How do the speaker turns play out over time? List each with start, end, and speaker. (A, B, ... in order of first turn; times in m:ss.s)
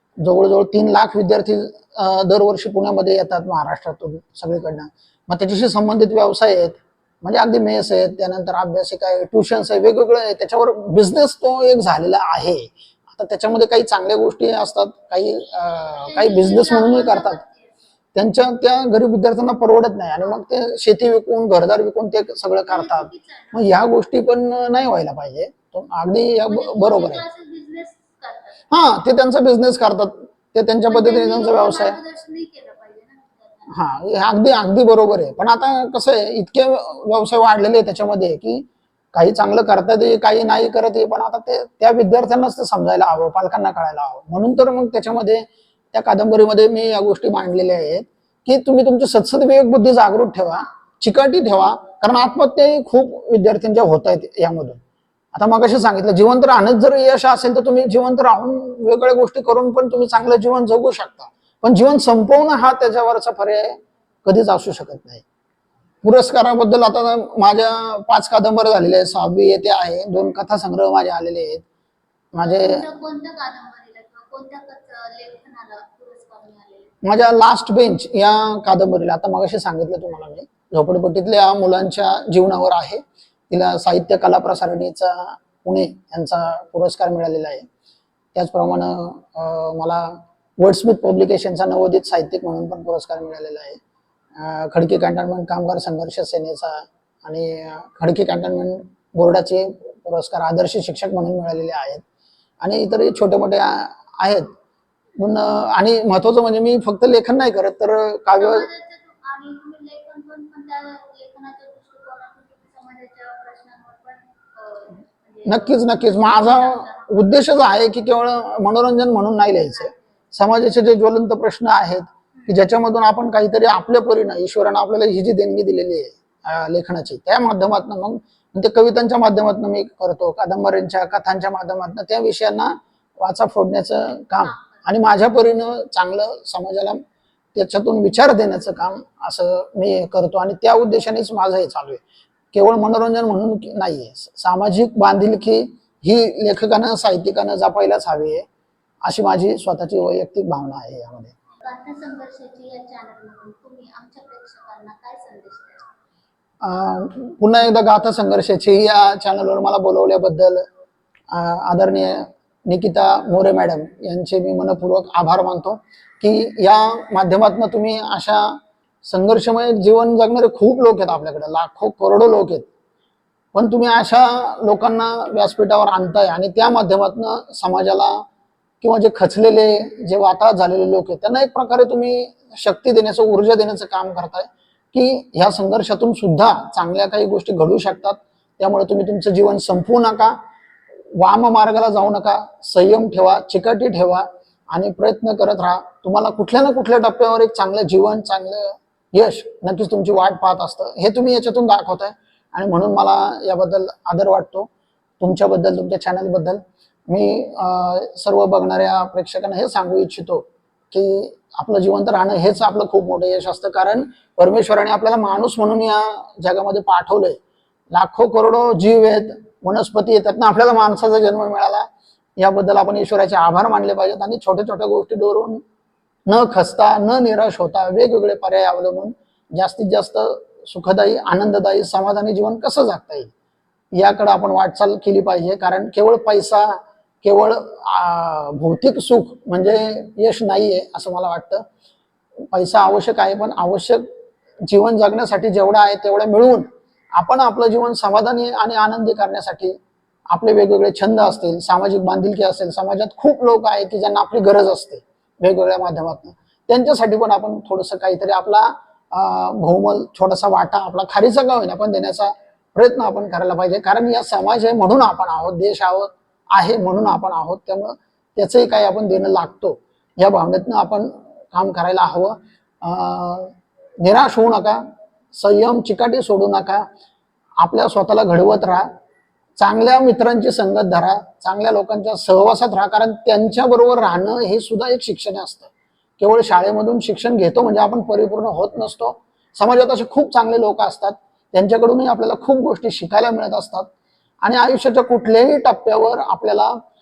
0:00.2-0:17.4 A
0:15.9-0:17.8 B
0:18.1-0:27.2 A
0:22.7-0:23.7 B
0:26.5-0:28.6 B
0:28.7-0:32.0 A
0:30.9-0:33.8 B
0:33.7-0:54.8 A
0:55.3-1:05.2 A
1:06.0-1:11.6 A
1:12.3-1:12.8 A
1:12.4-1:16.9 B
1:17.0-1:27.6 A
1:28.3-1:33.8 A
1:34.4-1:42.0 A
1:42.6-1:44.5 A
1:45.2-1:48.7 A
1:48.4-1:57.2 B
1:55.4-2:17.0 A
2:14.4-2:14.8 B
2:17.5-2:22.0 A
2:22.5-2:28.4 A
2:29.0-2:31.3 A
2:31.5-2:35.9 B
2:36.6-2:40.6 A
2:41.3-2:52.7 A
2:53.5-2:58.2 A
2:58.8-3:10.4 A
3:11.2-3:24.7 A
3:25.2-3:37.4 A
3:37.9-3:45.6 A
3:46.3-3:53.3 A
3:53.9-4:01.6 A
4:02.5-4:04.0 A
4:04.6-4:09.8 A
4:10.3-4:34.8 A
4:35.3-4:36.8 A
4:37.6-4:38.9 A
4:39.6-4:53.9 A
4:54.4-4:56.8 A